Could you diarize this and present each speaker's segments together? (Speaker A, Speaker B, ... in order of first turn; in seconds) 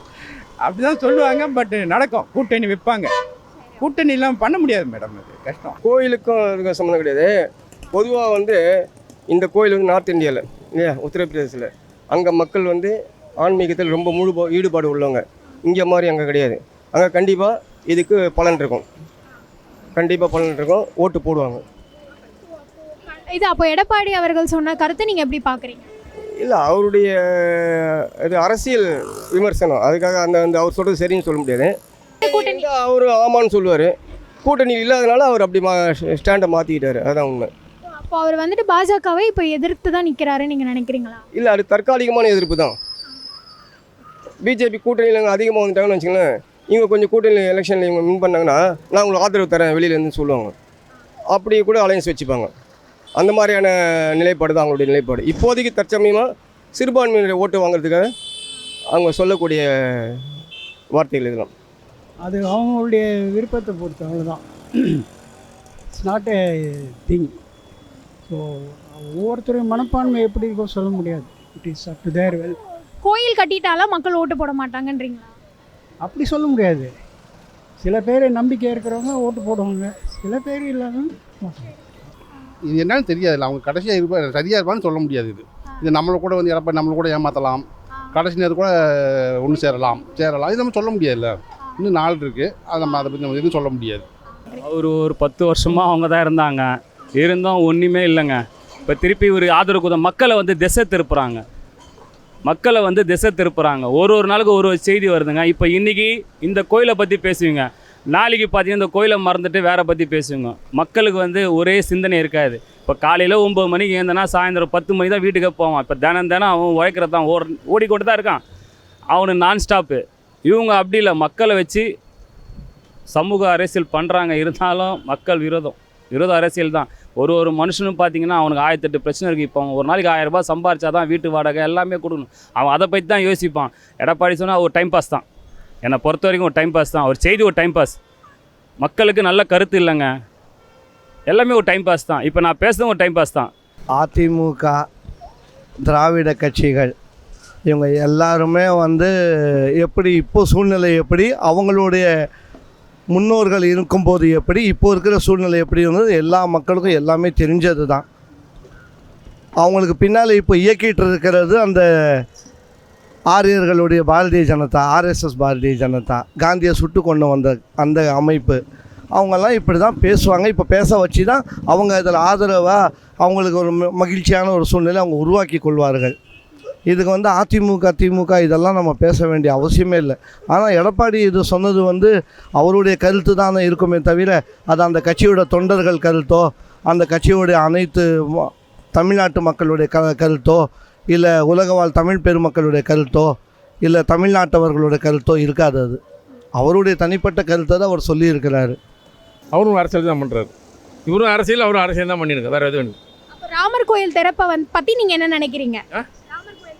Speaker A: 0.6-3.1, 3.8-5.8
Speaker B: 5.8-7.3, 7.9-8.6, 9.3-18.8, 19.9-21.6, 26.4-37.5, 41.3-42.7, 44.4-50.5, 51.3-52.5, 53.2-58.1, 58.9-59.6, 60.9-61.5
Speaker C: 23.1-25.9, 32.2-32.7, 38.0-41.2, 73.0-75.3, 203.3-205.8
Speaker D: 62.2-65.0, 65.9-67.3, 68.3-72.5, 76.0-76.9, 77.8-81.7
Speaker E: 82.7-94.0
Speaker F: 94.6-101.4, 102.4-118.4, 119.1-121.8, 123.1-135.2, 135.8-138.0, 138.8-140.1, 141.3-143.5
Speaker G: 143.9-144.8, 145.8-146.9, 147.7-152.1, 153.1-158.0, 159.6-162.2, 163.3-168.6, 169.1-176.1, 176.9-196.0, 196.6-198.8
Speaker H: 199.5-200.5, 201.1-202.9